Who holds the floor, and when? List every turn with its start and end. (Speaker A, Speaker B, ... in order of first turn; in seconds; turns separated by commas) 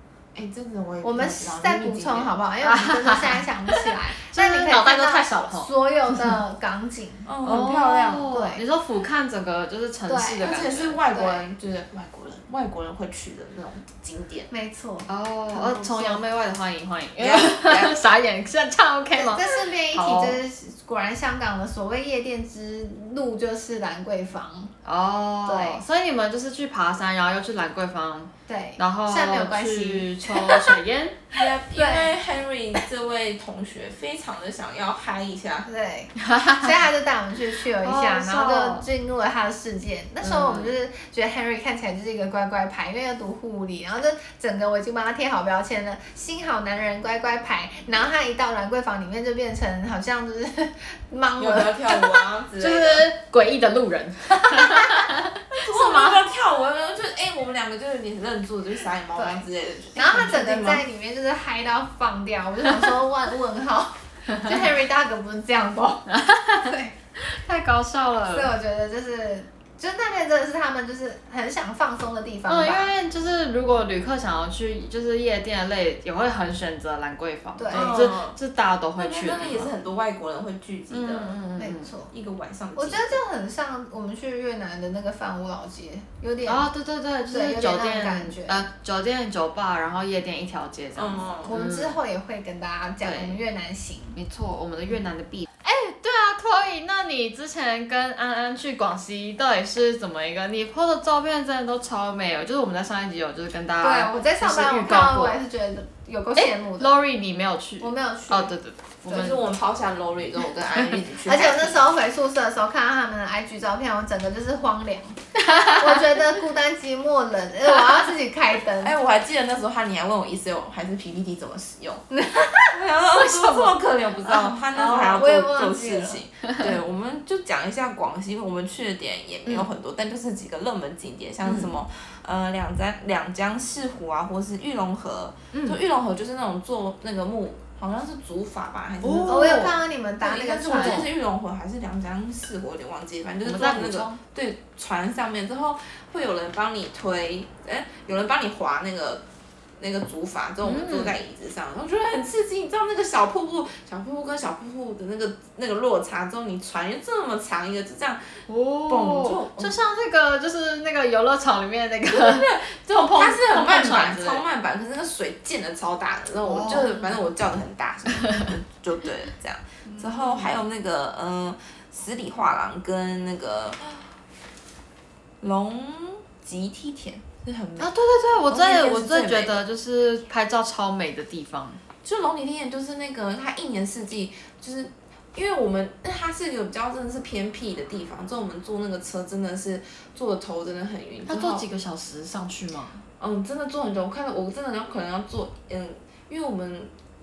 Speaker A: 0.3-2.3, Speaker B: 1.0-7.3, Speaker C: 2.6-5.7, Speaker A: 7.3-8.3, Speaker C: 7.4-11.0, Speaker B: 8.3-8.6, Speaker B: 10.1-10.4, Speaker A: 10.4-14.5, Speaker B: 11.1-11.4, Speaker B: 14.5-16.2, Speaker C: 15.1-20.4, Speaker A: 17.2-18.0, Speaker B: 19.2-24.7, Speaker C: 24.9-31.4, Speaker B: 25.5-25.8, Speaker B: 28.5-30.8, Speaker A: 31.3-35.7, Speaker B: 31.8-32.1, Speaker B: 35.7-52.2, Speaker C: 36.2-36.7, Speaker C: 37.8-38.9, Speaker C: 40.2-40.7, Speaker A: 51.4-53.1, Speaker C: 52.6-56.2, Speaker B: 54.4-55.1, Speaker A: 55.6-60.8, Speaker B: 59.2-59.4, Speaker B: 60.0-66.1, Speaker C: 66.1-68.5, Speaker B: 66.6-67.0, Speaker B: 68.3-72.9, Speaker C: 72.5-79.7, Speaker B: 77.6-78.0, Speaker A: 77.7-78.4, Speaker A: 79.0-81.4, Speaker C: 80.9-81.9, Speaker B: 81.6-82.1, Speaker A: 82.1-83.2, Speaker B: 82.8-86.7, Speaker C: 86.5-92.0, Speaker B: 87.3-88.7, Speaker A: 91.0-91.5, Speaker B: 91.5-94.2, Speaker C: 93.0-93.4, Speaker C: 94.2-105.4, Speaker B: 103.8-106.9, Speaker C: 106.4-109.5, Speaker B: 107.8-108.5, Speaker A: 109.1-111.8, Speaker B: 111.3-119.0, Speaker C: 115.5-116.0, Speaker A: 118.8-149.2, Speaker B: 122.1-122.8, Speaker C: 123.1-123.8, Speaker B: 124.7-126.2, Speaker C: 131.4-131.7, Speaker C: 135.5-135.8, Speaker C: 139.0-139.8, Speaker B: 139.3-141.1, Speaker C: 140.6-141.1, Speaker C: 143.4-144.2, Speaker A: 149.8-159.8, Speaker C: 150.6-151.2, Speaker C: 158.5-164.4, Speaker A: 162.1-174.0, Speaker C: 166.4-167.2, Speaker C: 169.9-170.6, Speaker A: 175.4-177.9, Speaker C: 177.8-181.8, Speaker A: 178.5-179.6, Speaker A: 182.0-191.7, Speaker C: 191.3-193.0, Speaker A: 193.2-196.9